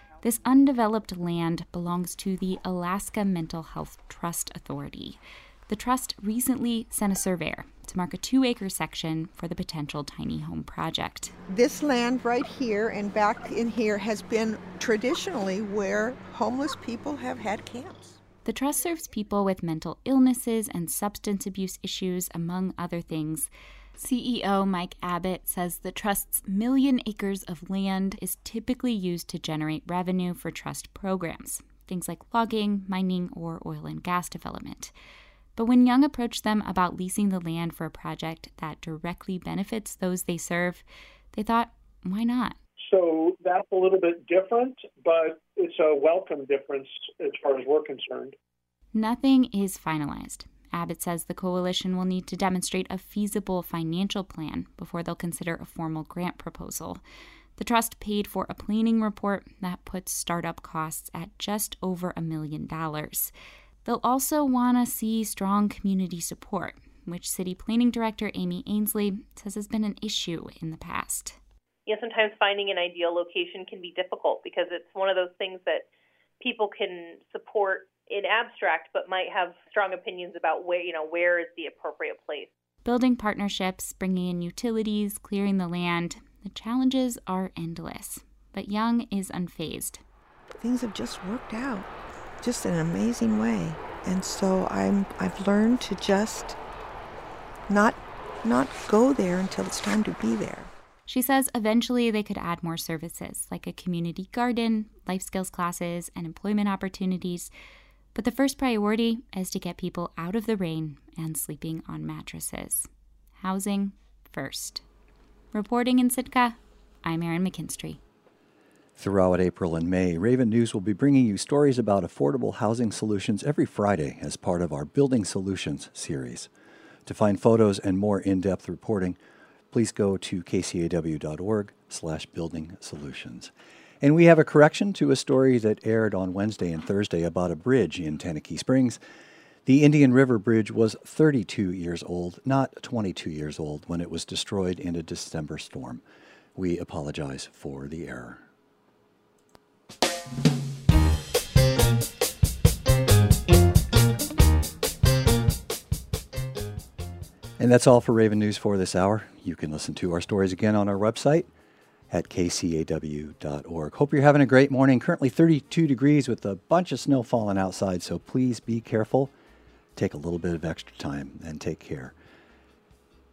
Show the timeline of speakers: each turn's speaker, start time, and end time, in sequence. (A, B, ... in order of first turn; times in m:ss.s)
0:00.2-0:11.3 A
0:11.5-0:18.2 B
0:18.4-0:34.9 A
0:35.6-0:42.6 A
0:42.9-0:48.4 C
0:48.9-0:57.0 A
0:57.6-1:03.3 A
1:03.8-1:11.4 A
1:11.9-1:15.9 D
1:16.4-1:22.5 D
1:22.8-1:30.0 A
1:30.6-1:31.9 B
1:32.4-1:36.6 B
1:37.7-1:40.7 B
1:41.1-1:47.5 A
1:48.2-1:52.9 A
1:53.4-1:54.8 A
1:55.5-1:58.0 A
1:59.0-2:06.5 E
2:07.1-2:09.2 E
2:09.7-2:19.0 E
2:19.7-2:26.0 E
2:26.6-2:28.4 E
2:37.6-2:41.5 E
2:42.1-2:49.3 E
2:50.0-2:52.1 E